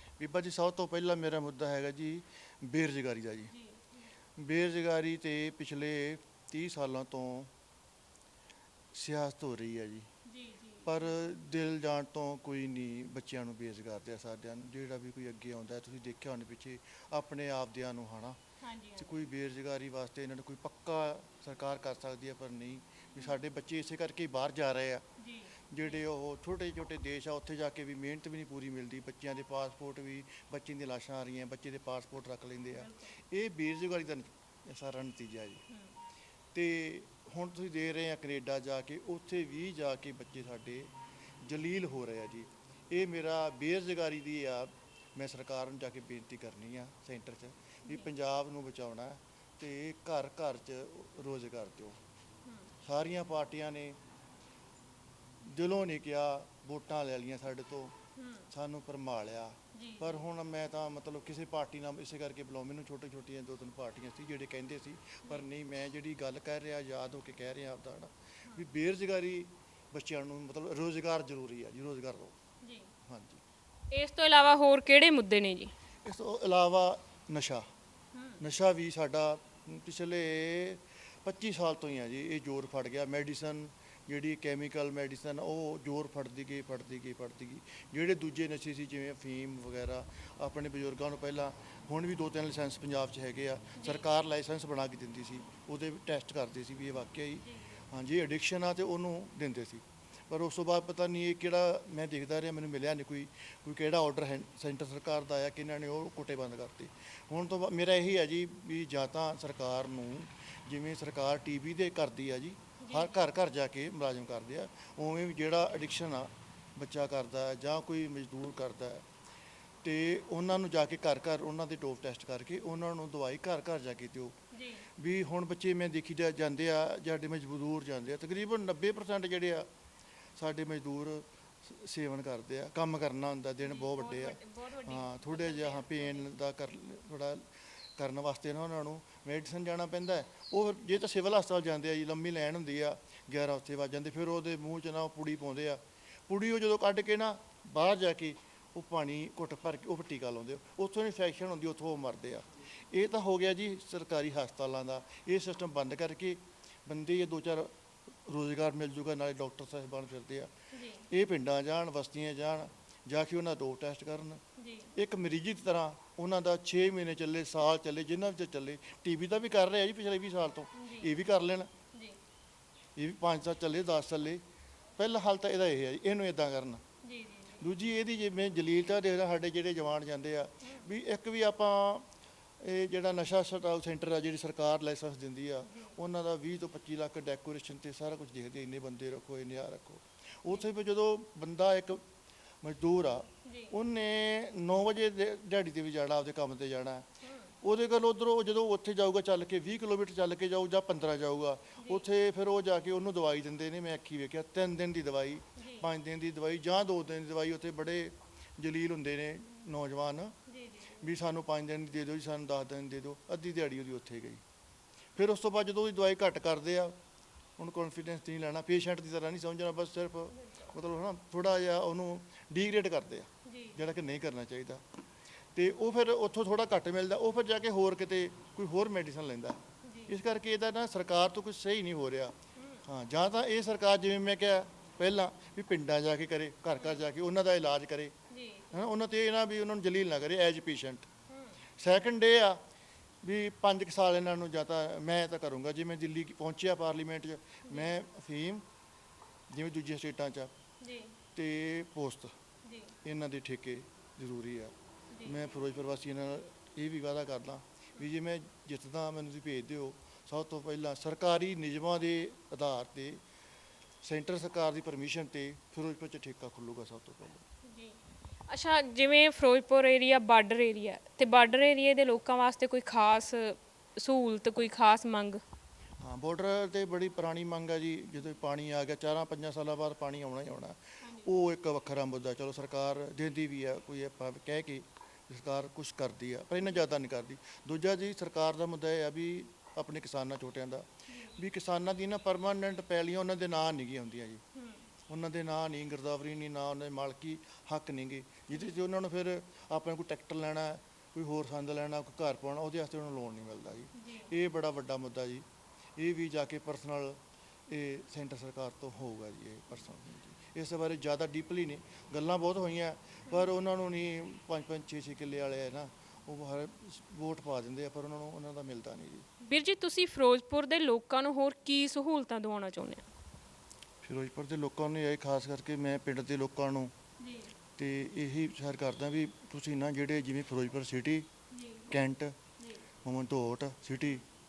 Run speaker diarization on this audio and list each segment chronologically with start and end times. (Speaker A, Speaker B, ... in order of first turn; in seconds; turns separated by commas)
Speaker A: 0.2-3.5, Speaker B: 3.5-4.0, Speaker A: 4.3-7.5, Speaker A: 8.9-10.1, Speaker B: 10.2-11.1, Speaker A: 10.8-18.4, Speaker B: 18.6-19.2, Speaker A: 18.9-25.0, Speaker B: 25.2-26.0, Speaker A: 25.7-35.6, Speaker B: 32.8-33.1, Speaker A: 36.5-40.9, Speaker A: 41.4-52.0, Speaker B: 52.4-52.7, Speaker A: 52.8-54.0, Speaker A: 55.5-57.9, Speaker B: 58.1-58.5, Speaker A: 58.5-72.3, Speaker B: 59.7-60.2, Speaker B: 72.6-72.9, Speaker A: 73.1-73.4, Speaker B: 73.9-75.7, Speaker A: 76.0-77.7, Speaker B: 78.1-78.4, Speaker A: 78.4-119.0, Speaker B: 93.8-94.1, Speaker B: 112.8-113.2, Speaker A: 119.8-124.3, Speaker B: 124.5-124.9, Speaker A: 125.0-129.7, Speaker A: 130.3-137.4, Speaker B: 133.6-136.3, Speaker A: 138.0-157.7, Speaker A: 158.3-160.5, Speaker B: 160.7-161.1, Speaker A: 161.1-164.4, Speaker B: 164.6-164.9, Speaker A: 164.9-171.7, Speaker B: 170.7-171.1, Speaker B: 171.9-172.2, Speaker A: 172.9-174.4, Speaker A: 175.0-176.8, Speaker B: 177.0-177.6, Speaker A: 177.6-182.1, Speaker A: 182.6-192.0, Speaker A: 192.6-197.1, Speaker B: 193.4-193.7, Speaker B: 197.2-197.5, Speaker A: 197.6-210.3, Speaker B: 205.6-205.9, Speaker B: 210.5-211.0, Speaker A: 211.0-214.4, Speaker A: 215.1-216.9, Speaker A: 217.6-224.8, Speaker B: 223.4-223.8, Speaker A: 225.5-238.1, Speaker B: 229.8-230.1, Speaker B: 232.6-232.8, Speaker B: 238.3-238.7, Speaker A: 238.7-241.1, Speaker B: 241.3-241.6, Speaker A: 241.8-242.6, Speaker A: 243.2-248.6, Speaker A: 249.5-250.5, Speaker B: 250.8-251.2, Speaker A: 251.3-252.3, Speaker B: 252.6-252.9, Speaker A: 253.0-263.2, Speaker B: 255.1-255.5, Speaker A: 264.0-267.4, Speaker B: 267.6-268.0, Speaker B: 268.5-275.4, Speaker A: 276.0-294.4, Speaker B: 281.0-281.3, Speaker B: 291.1-291.4, Speaker B: 294.5-294.8, Speaker A: 295.1-305.4, Speaker B: 303.9-304.3, Speaker A: 306.0-307.2, Speaker A: 307.7-319.2, Speaker B: 319.4-323.0, Speaker A: 324.0-326.9, Speaker B: 327.2-327.5, Speaker A: 327.8-331.3, Speaker B: 331.5-331.9, Speaker A: 331.9-332.3, Speaker A: 333.0-334.2